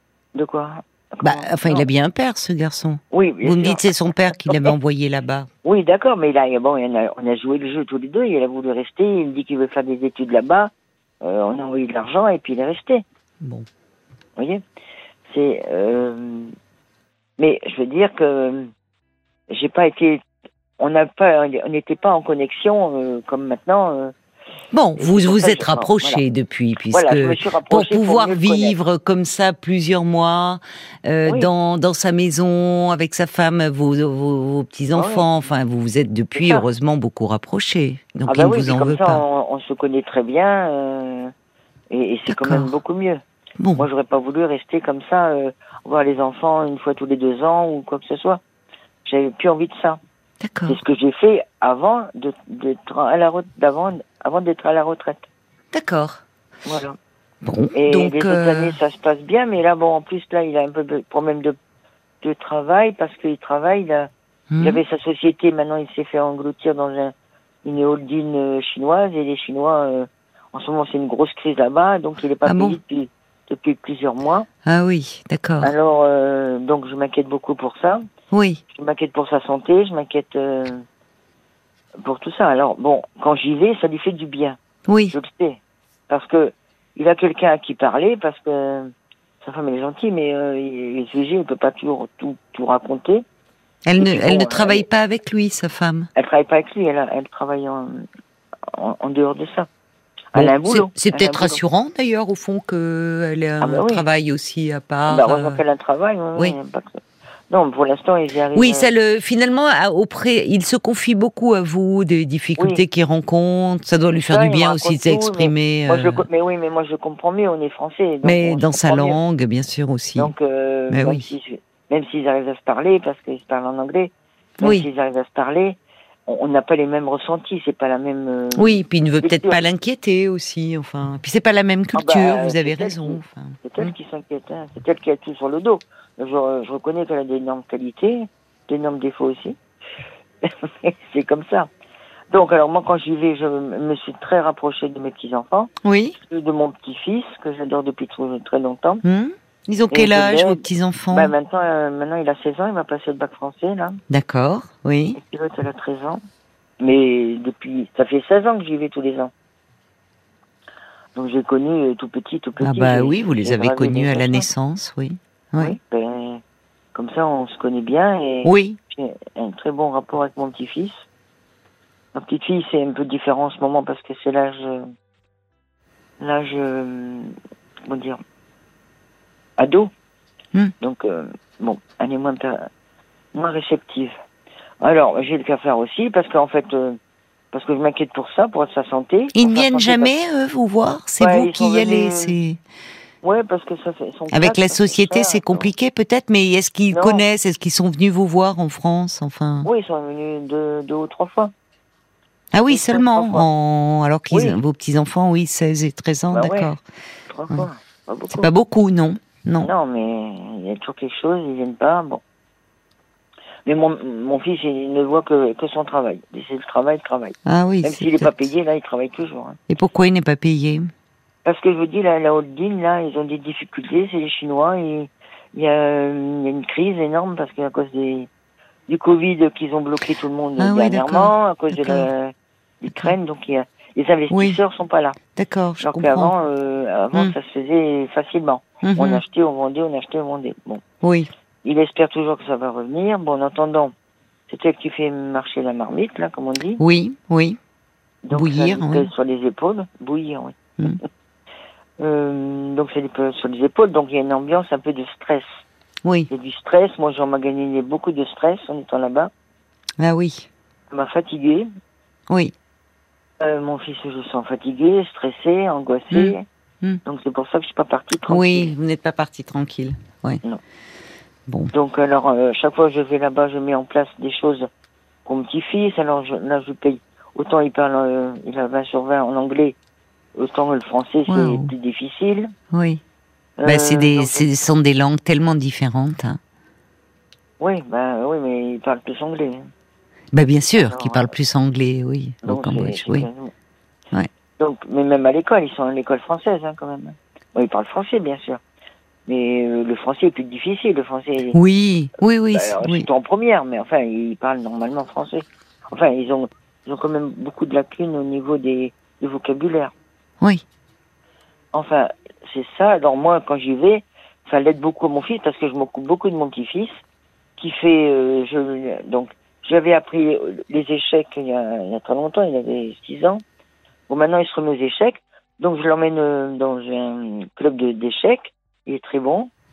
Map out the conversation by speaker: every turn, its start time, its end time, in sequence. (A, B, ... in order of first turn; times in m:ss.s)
0:00.3-0:01.8 A
0:01.2-0:05.5 B
0:03.1-0:03.8 A
0:04.5-0:04.7 A
0:05.6-0:13.0 A
0:13.4-0:13.7 B
0:14.4-0:14.6 A
0:15.3-0:16.5 A
0:17.4-0:18.7 A
0:19.5-0:20.2 A
0:20.8-0:24.1 A
0:24.7-0:39.2 B
0:25.0-0:26.2 A
0:26.9-0:28.8 A
0:34.9-0:35.2 A
0:36.3-0:36.6 A
0:38.3-0:41.3 A
0:41.9-0:43.2 A
0:42.3-0:42.7 B
0:43.6-0:43.9 B
0:43.8-0:48.4 A
0:49.0-0:50.0 A
0:50.4-0:50.8 B
0:50.7-0:55.2 A
0:55.7-0:56.2 B
0:56.6-0:57.0 A
0:57.4-0:58.7 B
0:57.7-1:01.6 A
1:02.2-1:04.1 A
1:04.5-1:04.8 B
1:04.6-1:14.5 A
1:12.4-1:12.8 B
1:14.6-1:15.7 B
1:15.6-1:18.0 A
1:18.3-1:18.6 B
1:18.7-1:20.8 A
1:22.0-1:24.6 A
1:24.9-1:25.2 B
1:25.1-1:33.2 A
1:33.8-1:36.1 B
1:34.0-1:34.8 A
1:36.1-1:38.0 A
1:38.7-1:39.7 A
1:40.3-1:41.6 A
1:40.3-1:45.6 B
1:43.6-1:44.0 A
1:45.1-1:48.9 A
1:48.5-1:56.2 B
1:54.1-1:59.2 A
1:58.2-2:00.3 B
2:00.2-2:09.6 A
2:00.9-2:01.3 B
2:04.6-2:04.9 B
2:08.6-2:13.9 B
2:11.9-2:19.6 A
2:20.4-2:21.7 A
2:22.3-2:29.0 A
2:25.8-2:26.2 B
2:29.0-2:31.3 B
2:29.9-2:34.0 A
2:34.1-2:35.2 B
2:35.2-2:36.2 A
2:36.8-2:39.3 A
2:41.1-2:44.4 A
2:42.6-2:45.8 B
2:45.6-2:46.4 A
2:46.9-2:51.0 A
2:48.4-2:48.8 B
2:52.1-2:54.9 A
2:56.2-2:58.2 A
2:59.6-2:59.9 A
3:00.8-3:02.7 A
3:03.3-3:04.1 A
3:04.8-3:07.0 A
3:07.5-3:10.1 A
3:09.3-3:12.6 B
3:11.2-3:12.3 A
3:13.2-3:15.7 A
3:14.3-3:19.7 B
3:16.9-3:17.2 A
3:19.6-3:21.5 A
3:22.5-3:26.8 B
3:22.7-3:23.5 A
3:24.3-3:24.6 A
3:26.3-3:26.7 A
3:27.3-3:28.5 A
3:28.3-3:29.7 B
3:29.6-3:32.2 A
3:33.6-3:39.6 A
3:37.4-3:38.3 B
3:39.7-3:40.9 B
3:41.4-3:48.3 A
3:48.9-3:55.2 A
3:50.6-3:52.1 B
3:54.3-3:54.6 B
3:55.4-3:56.3 B
3:55.8-4:00.8 A
3:58.8-3:59.2 B
4:01.0-4:01.3 B
4:01.6-4:03.9 A
4:04.5-4:06.8 A
4:06.8-4:07.6 B
4:08.2-4:11.0 A
4:08.3-4:09.1 B
4:12.0-4:15.6 A
4:16.3-4:19.3 A
4:20.0-4:20.5 B
4:20.9-4:21.7 A
4:23.4-4:26.4 A
4:26.1-4:27.0 B
4:27.0-4:28.7 A
4:28.3-4:30.4 B
4:31.5-4:31.7 B
4:31.7-4:34.7 A
4:35.2-4:39.8 A
4:40.4-4:42.5 A
4:41.3-4:41.7 B
4:42.7-4:43.0 B
4:43.6-4:44.4 A
4:43.6-4:46.4 B
4:47.6-4:49.7 A
4:50.3-4:53.3 B
4:50.8-4:51.3 A
4:52.4-4:53.5 A
4:54.6-4:58.6 A
4:59.3-5:01.6 A
5:01.5-5:03.1 B
5:02.5-5:09.9 A
5:11.7-5:17.0 A
5:17.6-5:23.4 A
5:24.1-5:29.5 A